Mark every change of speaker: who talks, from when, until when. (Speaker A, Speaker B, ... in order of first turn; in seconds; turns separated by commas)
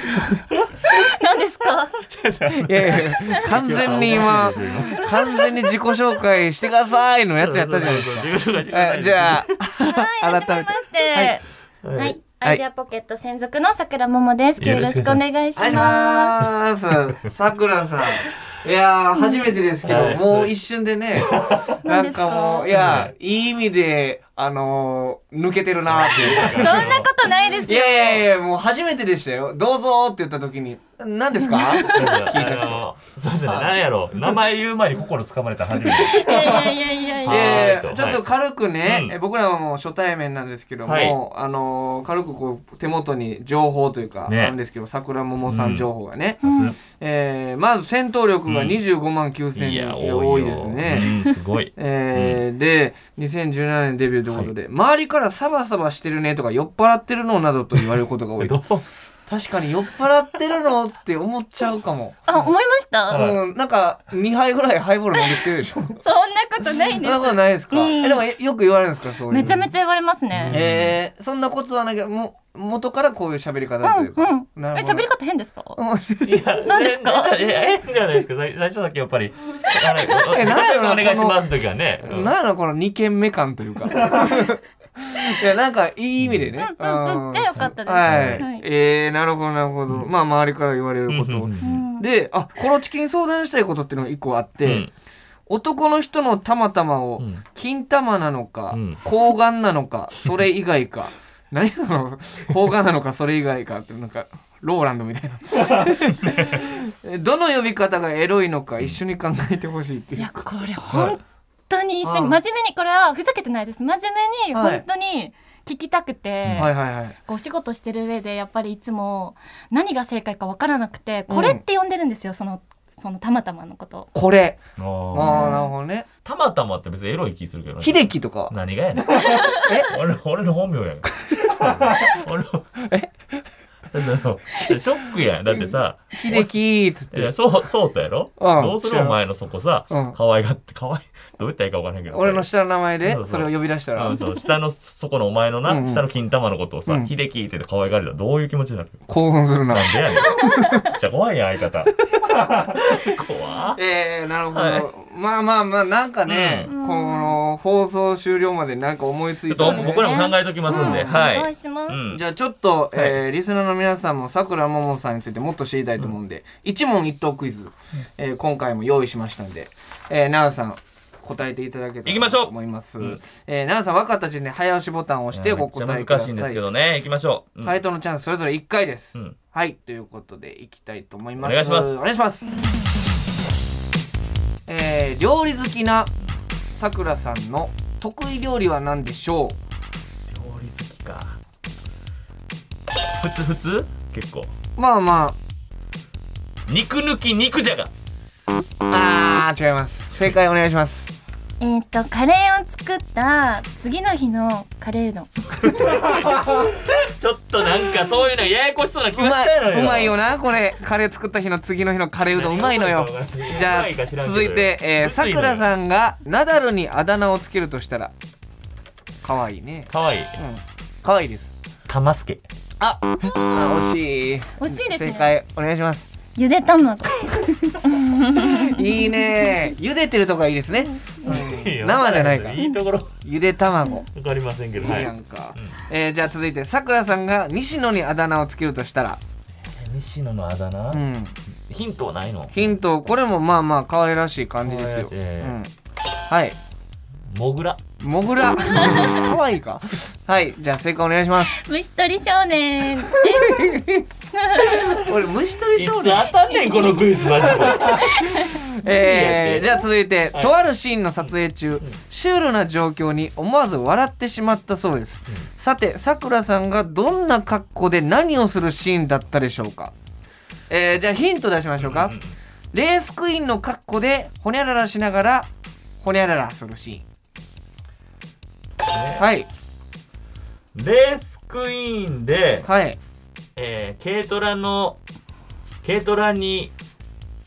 Speaker A: 0.9-2.0, Speaker B: 2.0-5.5, Speaker C: 2.5-11.3, Speaker B: 7.4-9.5, Speaker A: 9.8-16.5, Speaker B: 11.8-12.2, Speaker B: 14.6-15.9, Speaker C: 15.6-26.9, Speaker A: 19.2-19.5, Speaker B: 19.8-20.5, Speaker B: 21.2-21.8, Speaker A: 21.8-22.8, Speaker B: 22.7-23.1, Speaker B: 25.9-27.1, Speaker A: 26.4-28.2, Speaker C: 27.6-32.9, Speaker A: 31.4-32.3, Speaker B: 31.9-38.3, Speaker C: 33.5-33.8, Speaker A: 35.9-37.8, Speaker C: 37.2-51.1, Speaker B: 38.8-39.2, Speaker B: 40.9-41.2, Speaker B: 44.3-44.6, Speaker B: 45.4-45.9, Speaker B: 46.4-46.8, Speaker A: 46.4-46.7, Speaker B: 48.5-48.8, Speaker B: 49.5-52.4, Speaker C: 51.8-58.6, Speaker B: 58.4-58.9, Speaker C: 59.3-62.4, Speaker A: 62.3-63.3, Speaker B: 63.1-63.4, Speaker C: 63.1-66.0, Speaker A: 66.0-68.2, Speaker C: 67.0-69.6, Speaker A: 69.3-70.6, Speaker B: 70.3-71.0, Speaker C: 70.5-75.1, Speaker A: 73.8-75.8, Speaker C: 75.8-76.3, Speaker B: 76.2-82.3, Speaker A: 76.7-77.4, Speaker C: 80.3-81.4, Speaker C: 82.0-94.9, Speaker B: 86.2-86.5, Speaker A: 86.6-88.6, Speaker B: 87.6-88.4, Speaker B: 91.1-91.8, Speaker A: 91.6-92.1, Speaker B: 94.6-94.9, Speaker C: 95.5-110.3, Speaker B: 97.2-97.4, Speaker B: 98.7-99.0, Speaker B: 105.7-106.6, Speaker A: 110.2-116.8, Speaker C: 110.9-111.1, Speaker C: 112.0-112.4, Speaker C: 114.5-114.8, Speaker B: 116.4-116.7, Speaker C: 116.6-117.2, Speaker A: 117.3-124.1, Speaker C: 121.3-121.6, Speaker C: 124.1-124.6, Speaker B: 124.8-125.6, Speaker C: 125.1-126.1, Speaker A: 125.2-125.7, Speaker B: 126.2-132.7, Speaker C: 127.8-128.5, Speaker A: 129.3-129.6, Speaker C: 129.6-129.9, Speaker C: 131.3-132.2, Speaker C: 132.8-133.1, Speaker B: 133.9-136.5, Speaker C: 136.1-137.3, Speaker B: 137.1-142.5, Speaker C: 138.4-139.2, Speaker C: 139.9-140.2, Speaker C: 142.1-144.2, Speaker B: 143.0-149.0, Speaker A: 144.1-144.4, Speaker C: 145.7-146.0, Speaker C: 149.1-150.8, Speaker B: 149.7-151.9, Speaker B: 152.4-153.8, Speaker C: 153.8-160.1, Speaker B: 154.5-154.9, Speaker B: 156.3-156.7, Speaker A: 156.7-157.4, Speaker B: 159.5-162.2, Speaker A: 159.6-162.1, Speaker C: 160.7-161.2, Speaker C: 162.1-176.6, Speaker B: 172.1-173.2, Speaker B: 175.3-177.8, Speaker C: 177.6-182.5, Speaker B: 181.4-182.0, Speaker C: 184.7-186.1, Speaker C: 186.8-189.6, Speaker B: 190.3-191.4, Speaker B: 193.2-194.5, Speaker C: 194.8-195.4, Speaker B: 196.7-197.9, Speaker C: 198.9-201.1, Speaker A: 201.6-205.4, Speaker B: 205.6-210.2, Speaker C: 209.1-218.1, Speaker B: 212.3-215.7, Speaker C: 219.2-221.5, Speaker B: 219.9-220.4, Speaker B: 221.9-222.4, Speaker C: 222.8-226.1, Speaker A: 224.6-225.3, Speaker A: 226.4-229.6, Speaker C: 228.4-232.7, Speaker B: 231.2-233.2, Speaker C: 233.2-234.1, Speaker B: 234.1-235.8, Speaker C: 234.8-239.2, Speaker B: 239.5-241.0, Speaker C: 240.9-241.3, Speaker B: 241.7-242.7, Speaker C: 242.5-245.7, Speaker B: 244.6-245.6, Speaker C: 246.3-246.6, Speaker B: 247.3-247.8, Speaker C: 248.0-251.6, Speaker A: 248.8-249.2, Speaker A: 251.5-255.0, Speaker C: 253.3-254.1, Speaker C: 254.7-256.3, Speaker B: 255.7-258.3, Speaker A: 256.7-257.1, Speaker C: 257.6-269.9, Speaker A: 257.9-258.6, Speaker B: 258.9-259.8, Speaker C: 270.7-272.2, Speaker B: 271.8-272.4, Speaker C: 272.7-275.5, Speaker C: 276.0-277.1, Speaker B: 278.9-279.3, Speaker C: 279.2-279.5, Speaker B: 280.8-282.7, Speaker C: 282.6-283.0, Speaker B: 283.6-285.0, Speaker B: 285.8-286.7